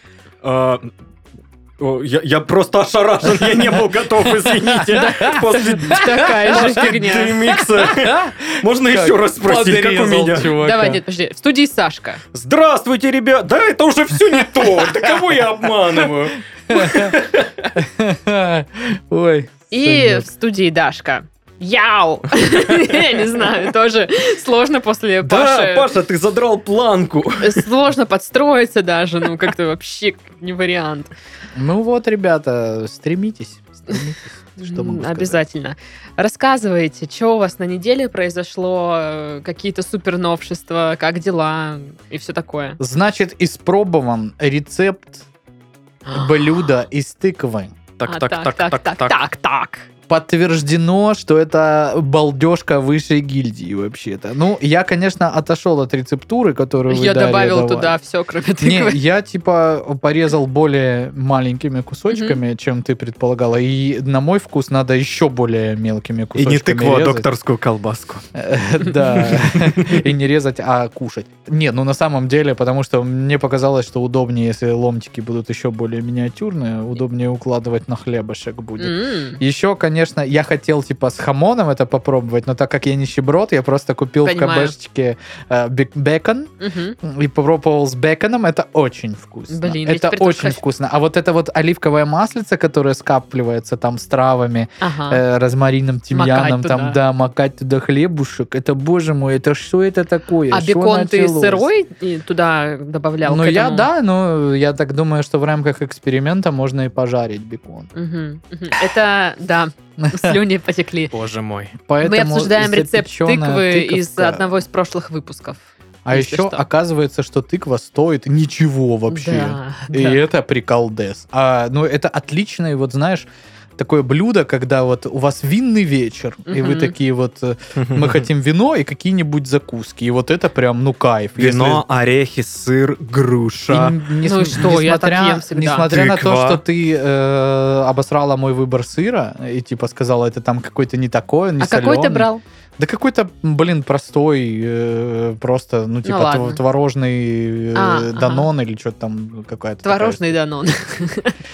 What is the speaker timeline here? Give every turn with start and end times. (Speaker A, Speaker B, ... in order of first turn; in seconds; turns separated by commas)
Speaker A: 0.4-0.9, Speaker A: 1.8-10.6, Speaker B: 3.4-6.9, Speaker C: 5.0-7.4, Speaker B: 7.5-11.0, Speaker C: 10.5-12.2, Speaker A: 12.3-17.7, Speaker B: 16.7-17.2, Speaker B: 17.8-20.3, Speaker C: 19.7-25.9, Speaker A: 25.2-27.7, Speaker C: 27.4-31.1, Speaker B: 31.6-35.4, Speaker C: 34.6-42.8, Speaker B: 42.8-45.3, Speaker C: 46.0-46.7, Speaker B: 46.1-47.8, Speaker A: 48.0-49.2, Speaker C: 48.0-49.9, Speaker B: 50.1-58.0, Speaker C: 56.9-59.0, Speaker B: 58.6-67.3, Speaker C: 62.1-62.4, Speaker A: 66.3-68.2, Speaker B: 68.3-101.7, Speaker A: 69.2-70.0, Speaker C: 78.8-79.4, Speaker C: 84.2-84.8, Speaker C: 86.6-87.0, Speaker C: 89.5-90.6, Speaker C: 94.8-95.2, Speaker C: 96.1-97.0, Speaker C: 100.5-103.9, Speaker B: 103.2-107.9, Speaker C: 107.9-111.2, Speaker B: 110.0-110.4, Speaker A: 111.1-111.8, Speaker B: 111.8-114.5, Speaker C: 112.0-116.7, Speaker B: 116.0-131.8, Speaker C: 119.1-120.2, Speaker C: 126.5-127.0, Speaker A: 127.8-128.3, Speaker A: 131.4-134.0, Speaker B: 133.7-150.3, Speaker C: 134.2-135.9, Speaker A: 135.9-136.6, Speaker C: 141.6-142.4, Speaker C: 146.1-146.6, Speaker C: 147.8-148.5, Speaker C: 149.8-151.3